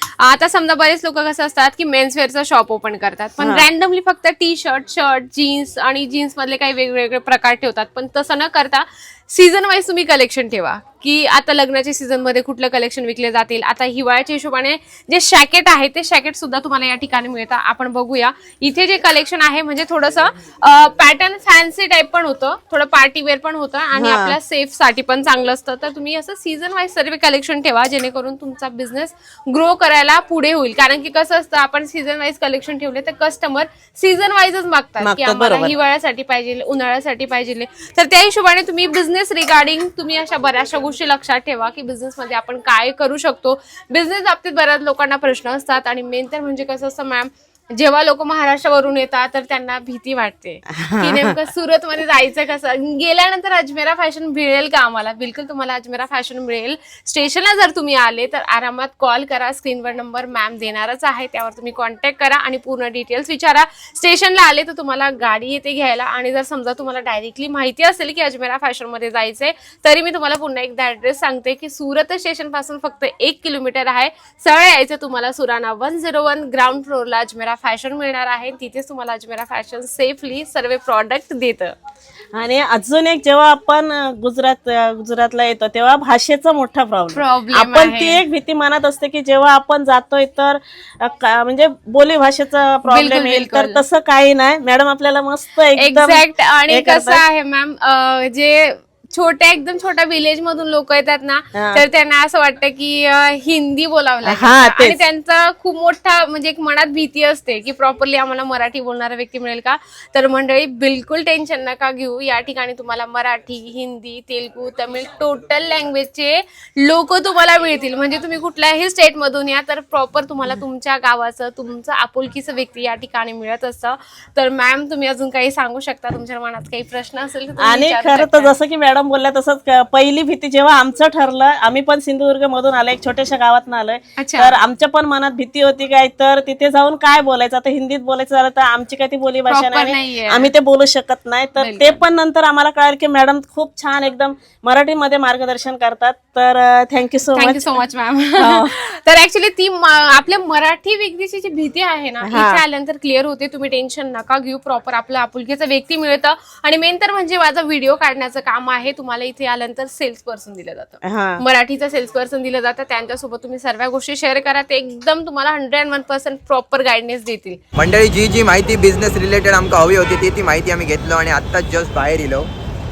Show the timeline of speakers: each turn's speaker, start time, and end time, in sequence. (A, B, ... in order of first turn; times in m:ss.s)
0:00.2-1:21.8 A
0:03.4-0:03.7 B
0:23.9-0:24.4 B
0:35.0-0:35.7 B
0:50.7-0:51.4 B
1:22.3-1:37.2 B
1:27.1-1:28.2 A
1:32.9-1:33.8 A
1:35.7-2:08.5 A
1:41.5-1:41.8 B
1:44.2-1:45.0 B
2:07.6-2:27.8 B
2:14.2-2:14.6 A
2:19.5-2:20.5 A
2:21.6-2:22.0 A
2:27.3-2:47.6 A
2:28.4-2:28.7 B
2:32.2-2:32.6 B
2:41.0-2:41.4 B
2:47.8-2:52.5 C